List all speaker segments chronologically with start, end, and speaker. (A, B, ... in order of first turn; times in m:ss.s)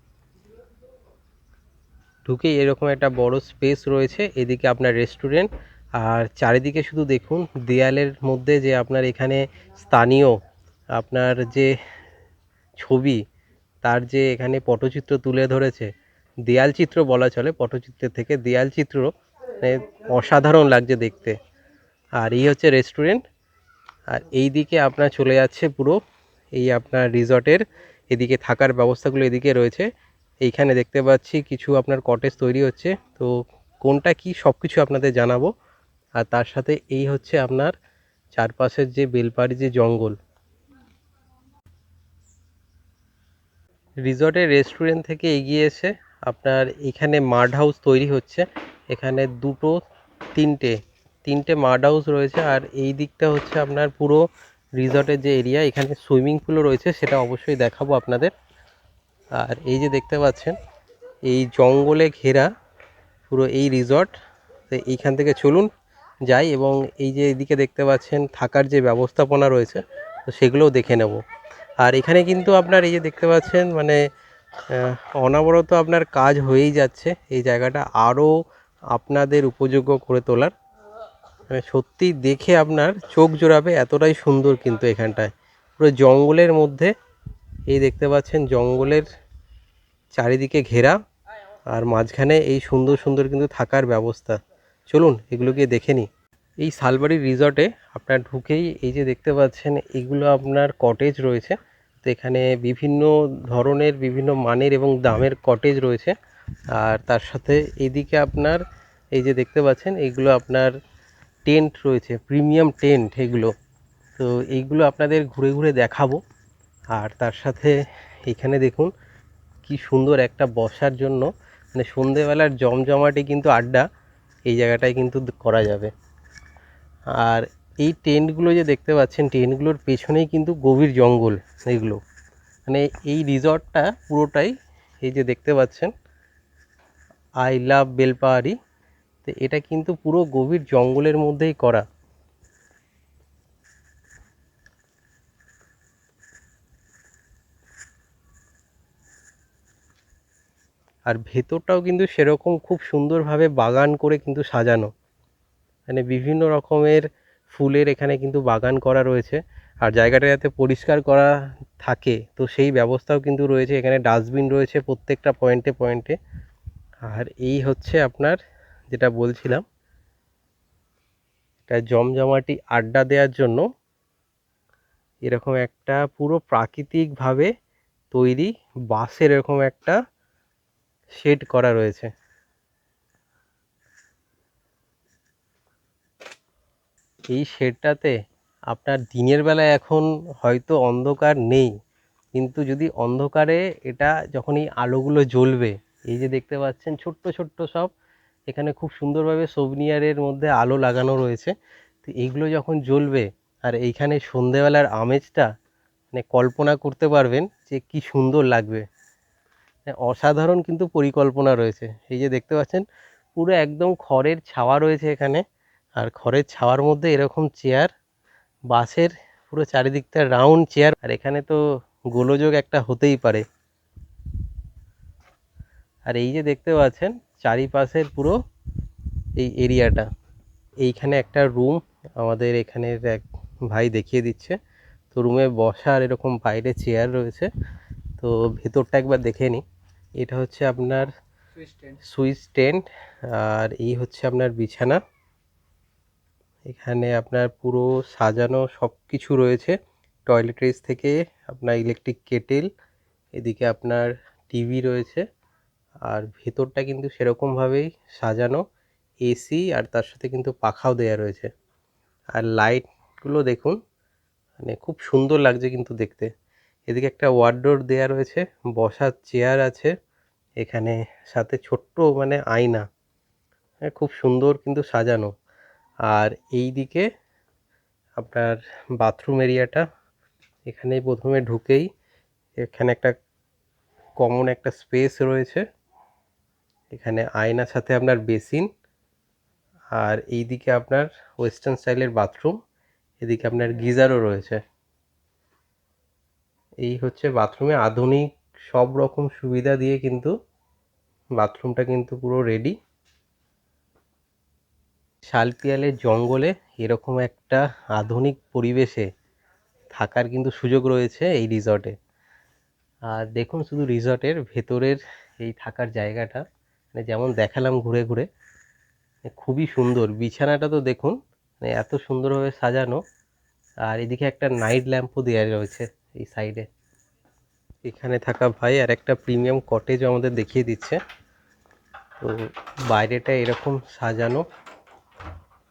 0:02.3-0:10.4 A
0:10.9-0:11.7 A
0:12.8-0:13.2 A
0:13.8-0:15.9 A
0:16.4-0:21.4 A
0:22.2-0:23.2 A
0:24.1-0:26.0 A
0:26.6-0:29.9 A
0:30.4-0:35.5 A
0:36.2-0:37.7 A
0:38.3-0:40.2 A
0:44.0-0:49.8 A
0:50.4-0:54.2 A
0:54.8-0:58.3 A
0:59.4-1:00.6 A
1:01.2-1:02.5 A
1:03.3-1:04.2 A
1:04.7-1:05.7 A
1:06.3-1:11.2 A
1:11.8-1:14.0 A
1:14.7-1:18.3 A
1:18.9-1:20.5 A
1:21.5-1:26.9 A
1:27.7-1:29.1 A
1:30.1-1:31.0 A
1:31.7-1:36.1 A
1:36.6-1:46.2 A
1:46.7-1:48.6 A
1:49.1-1:50.7 A
1:51.5-1:53.5 A
1:54.2-1:56.2 A
1:56.9-1:58.9 A
1:59.6-2:03.8 A
2:04.5-2:05.9 A
2:07.2-2:12.0 A
2:12.7-2:15.9 A
2:17.4-2:18.6 A
2:19.2-2:21.8 A
2:31.1-2:34.9 A
2:35.9-2:46.2 A
2:47.1-2:48.4 A
2:48.9-2:49.6 A
2:51.7-2:53.6 A
2:55.3-2:57.5 A
2:58.1-3:00.0 A
3:01.2-3:02.1 A
3:07.3-3:08.1 A
3:08.7-3:11.7 A
3:12.4-3:17.9 A
3:18.5-3:21.5 A
3:22.0-3:25.5 A
3:26.1-3:28.8 A
3:29.8-3:35.4 A
3:36.0-3:37.9 A
3:38.7-3:43.4 A
3:46.1-3:48.4 A
3:49.4-3:50.1 A
3:50.8-3:54.6 A
3:55.1-3:57.5 A
3:58.2-3:59.6 A
4:00.2-4:01.1 A
4:01.9-4:05.0 A
4:06.7-4:09.8 A
4:10.3-4:12.7 A
4:13.4-4:15.2 A
4:16.1-4:18.6 A
4:19.2-4:21.5 A
4:22.3-4:23.8 A
4:24.6-4:26.3 A
4:26.9-4:29.9 A
4:30.6-4:32.8 A
4:33.8-4:35.3 A
4:36.1-4:37.1 A
4:38.2-4:39.8 A
4:40.7-4:41.9 A
4:42.6-4:43.1 A
4:44.2-4:45.6 A
4:46.9-4:48.7 A
4:50.0-4:52.6 A
4:53.2-4:54.6 A
4:56.8-5:00.3 A
5:01.4-5:02.7 A
5:05.3-5:09.1 A
5:09.9-5:11.9 A
5:13.1-5:18.3 A
5:19.3-5:23.0 A
5:23.9-5:26.7 A
5:27.8-5:31.0 A
5:32.2-5:34.4 A